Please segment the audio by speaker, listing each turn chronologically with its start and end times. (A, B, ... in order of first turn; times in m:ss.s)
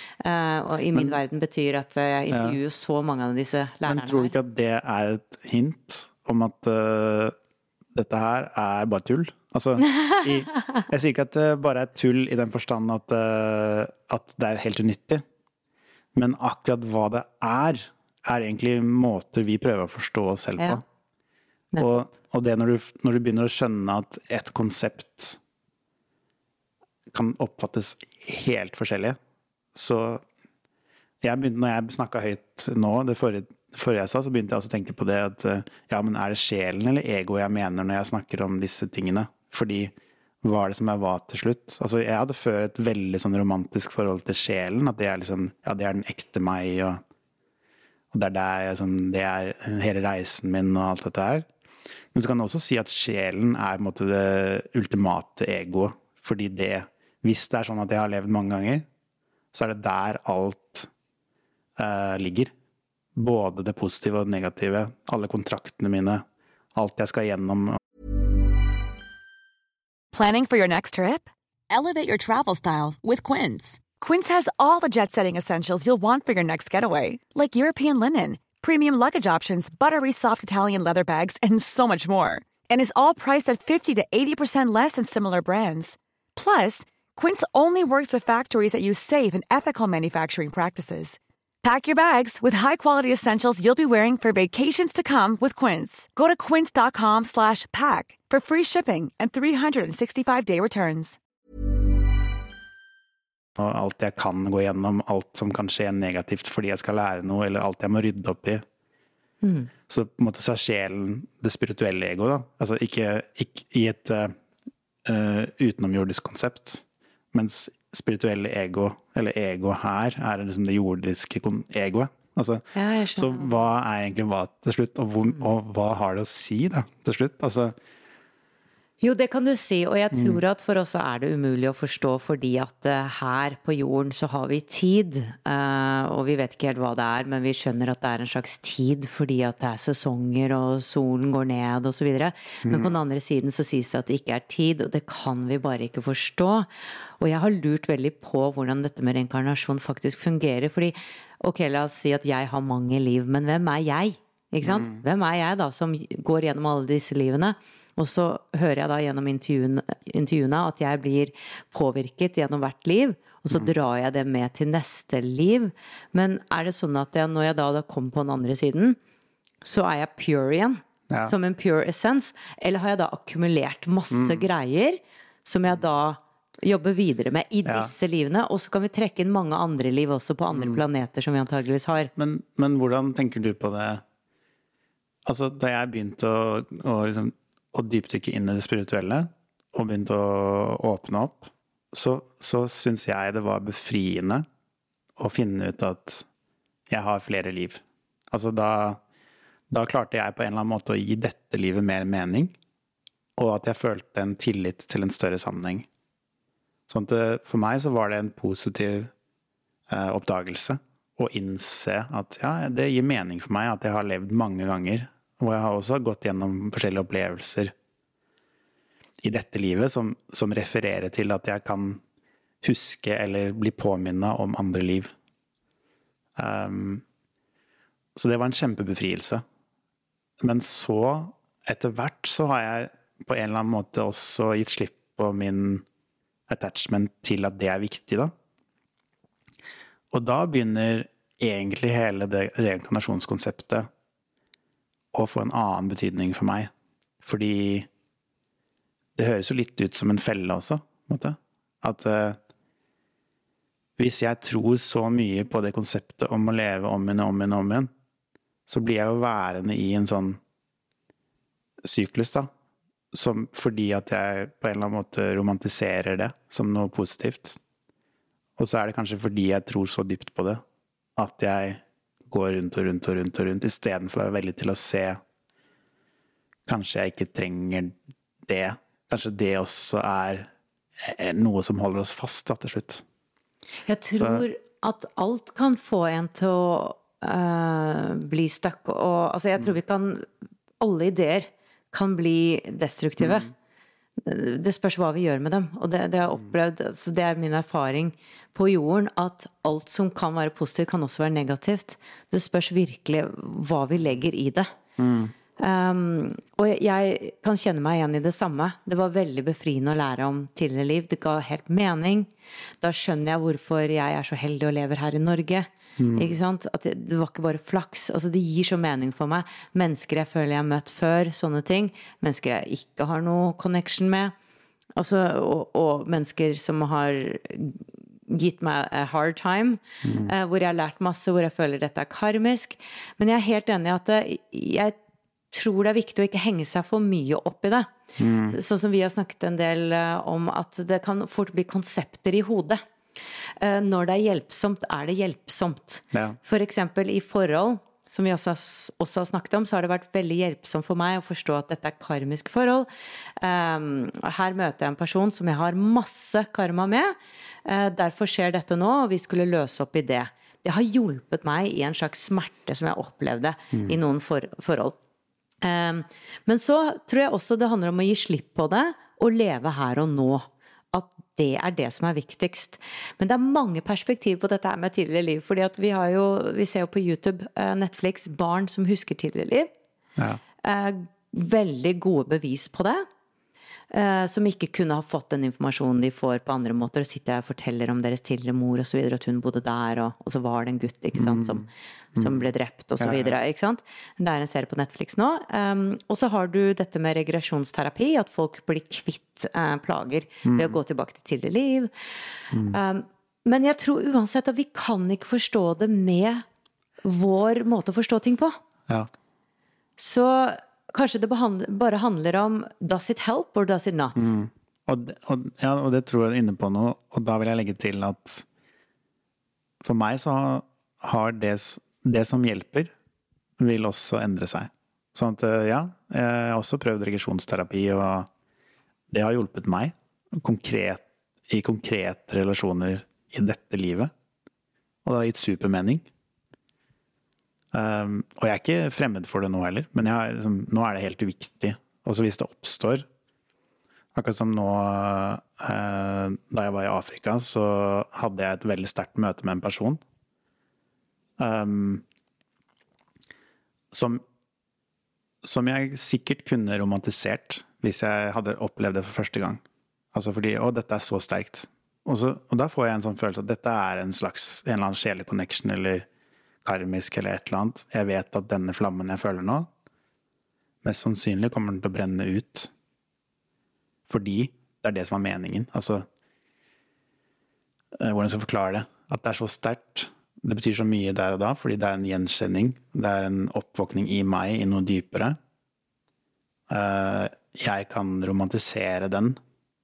0:00.2-0:04.4 A
0:02.3-0:02.6 B
0:03.9-0:07.4 B
0:07.9-0:15.2 B
0:16.2-0:20.8 B
0:21.7-0:22.0 A
0:21.8-0:25.4 B
0:27.1-0:29.2 B
0:29.7-0:30.2 B
0:31.2-0:47.0 B
0:48.1-0:51.5 B
0:52.1-0:58.8 B
0:59.5-1:00.9 B
1:01.8-1:02.5 B
1:03.2-1:07.8 B
1:10.1-1:41.2 C
1:43.6-1:48.6 B
1:49.4-1:49.7 A
1:49.9-1:54.4 B
1:55.0-2:07.8 B
2:02.8-2:03.5 A
2:09.0-2:49.0 A
2:10.1-2:10.4 B
2:22.6-2:22.9 B
2:34.6-2:35.0 B
2:49.6-3:02.1 A
2:54.1-2:54.4 B
2:57.6-2:57.9 B
3:00.5-3:00.8 B
3:02.2-3:04.0 B
3:05.2-3:14.5 B
3:15.2-3:16.3 B
3:16.9-3:19.0 B
3:19.7-3:22.6 B
3:23.4-3:25.9 B
3:26.9-3:29.1 B
3:29.9-3:37.7 B
3:39.2-3:42.0 B
3:42.6-3:45.1 B
3:46.4-3:47.0 B
3:48.2-3:49.4 B
3:50.4-3:55.8 B
3:56.5-3:58.3 B
4:00.1-4:03.9 B
4:05.1-4:06.7 B
4:07.2-4:07.9 B
4:09.2-4:12.4 B
4:14.0-4:17.9 B
4:18.7-4:20.4 B
4:21.8-4:22.5 B
4:23.1-4:27.6 B
4:28.6-4:30.6 B
4:31.2-4:35.2 B
4:36.7-4:38.0 B
4:38.5-4:43.0 B
4:43.9-4:50.3 A
4:44.2-4:44.4 B
4:50.8-4:53.5 A
4:53.2-4:53.5 B
4:54.2-5:04.7 A
5:05.0-5:05.3 B
5:05.6-5:12.3 A
5:12.8-5:24.3 A
5:16.0-5:16.3 B
5:25.0-5:35.0 A
5:30.0-5:30.3 B
5:35.5-5:37.9 A
5:38.2-5:38.6 B
5:38.5-5:42.8 A
5:43.6-6:05.0 A
5:46.1-5:46.4 B
6:05.6-6:19.7 A
6:20.6-6:23.1 A
6:23.9-6:41.9 A
6:31.2-6:31.6 B
6:33.0-6:33.3 B
6:40.4-6:40.8 B
6:42.5-6:42.8 B
6:42.7-6:46.4 A
6:47.0-6:48.6 A
6:50.0-6:54.3 A
6:54.2-6:58.5 B
6:59.8-7:02.9 B
7:03.6-7:08.3 B
7:09.1-7:14.1 B
7:15.0-7:16.1 B
7:17.7-7:23.1 B
7:24.1-7:30.0 B
7:31.4-7:32.0 B
7:33.9-7:34.2 B
7:35.4-7:39.6 B
7:40.1-7:46.1 B
7:46.6-7:49.7 B
7:50.8-7:52.7 B
7:54.1-7:56.1 B
7:58.0-8:05.4 B
8:06.7-8:09.4 B